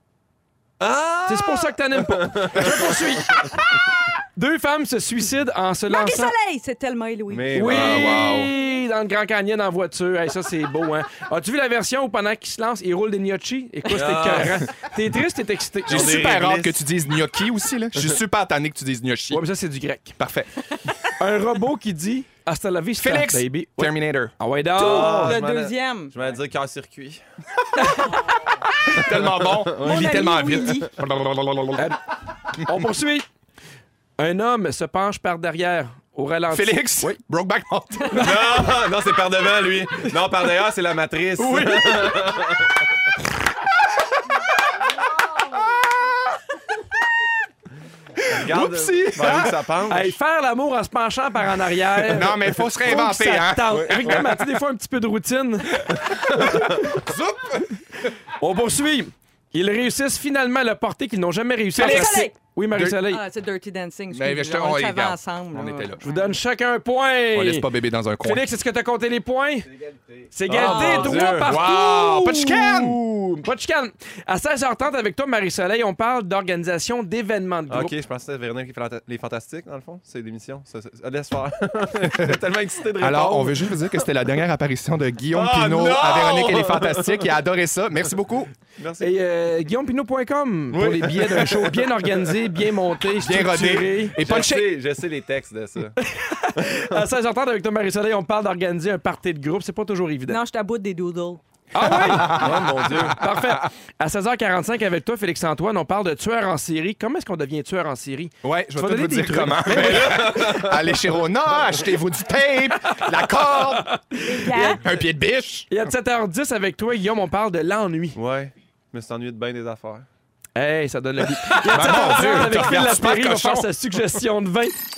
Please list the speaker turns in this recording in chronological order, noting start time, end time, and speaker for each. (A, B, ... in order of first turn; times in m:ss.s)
0:00.8-0:03.4 A
0:01.3-0:03.4 B
0:04.4-0:06.3 B
0:05.9-0:08.5 C
0:07.3-0:08.1 A
0:07.5-0:16.2 B
0:07.7-0:08.5 D
0:13.9-0:14.6 A
0:15.9-0:16.8 A
0:15.9-0:19.4 D
0:19.3-0:20.2 B
0:20.2-0:20.5 D
0:21.2-0:25.4 B
0:23.0-0:24.3 D
0:24.7-0:26.1 C
0:24.8-0:27.2 A
0:27.8-0:28.2 C
0:28.8-0:31.9 D
0:29.1-0:30.7 A
0:29.8-0:30.9 C
0:32.6-0:33.3 B
0:34.2-0:37.2 B
0:36.5-0:38.7 D
0:38.2-0:42.9 A
0:41.4-0:42.3 B
0:45.5-0:46.0 D
0:48.3-0:50.2 A
0:48.3-0:49.6 D
0:49.9-0:56.6 B
0:52.0-0:54.2 D
0:53.7-0:54.4 A
0:56.2-0:56.9 A
0:56.9-0:58.0 D
0:58.4-1:03.2 B
1:01.7-1:02.3 C
1:01.8-1:03.0 D
1:03.0-1:06.3 C
1:04.1-1:06.0 D
1:06.0-1:07.7 B
1:07.3-1:08.5 D
1:08.2-1:09.7 B
1:09.8-1:11.5 A
1:10.3-1:18.0 B
1:10.6-1:11.4 C
1:11.4-1:13.0 D
1:17.7-1:24.1 A
1:23.0-1:28.5 D
1:25.3-1:27.3 A
1:28.8-1:29.1 A
1:29.0-1:34.2 B
1:30.7-1:32.3 A
1:33.2-1:34.7 D
1:34.2-1:36.0 A
1:36.0-1:40.4 B
1:40.3-1:41.4 C
1:41.7-1:42.4 B
1:41.8-1:43.7 D
1:42.2-1:43.2 A
1:43.1-1:50.7 B
1:48.4-1:53.9 D
1:49.7-1:50.7 A
1:53.0-1:54.8 B
1:54.2-1:54.8 C
1:54.6-1:55.7 D
1:55.7-1:58.2 B
1:58.1-2:00.1 A
2:00.6-2:04.8 B
2:01.6-2:02.6 A
2:01.7-2:03.7 D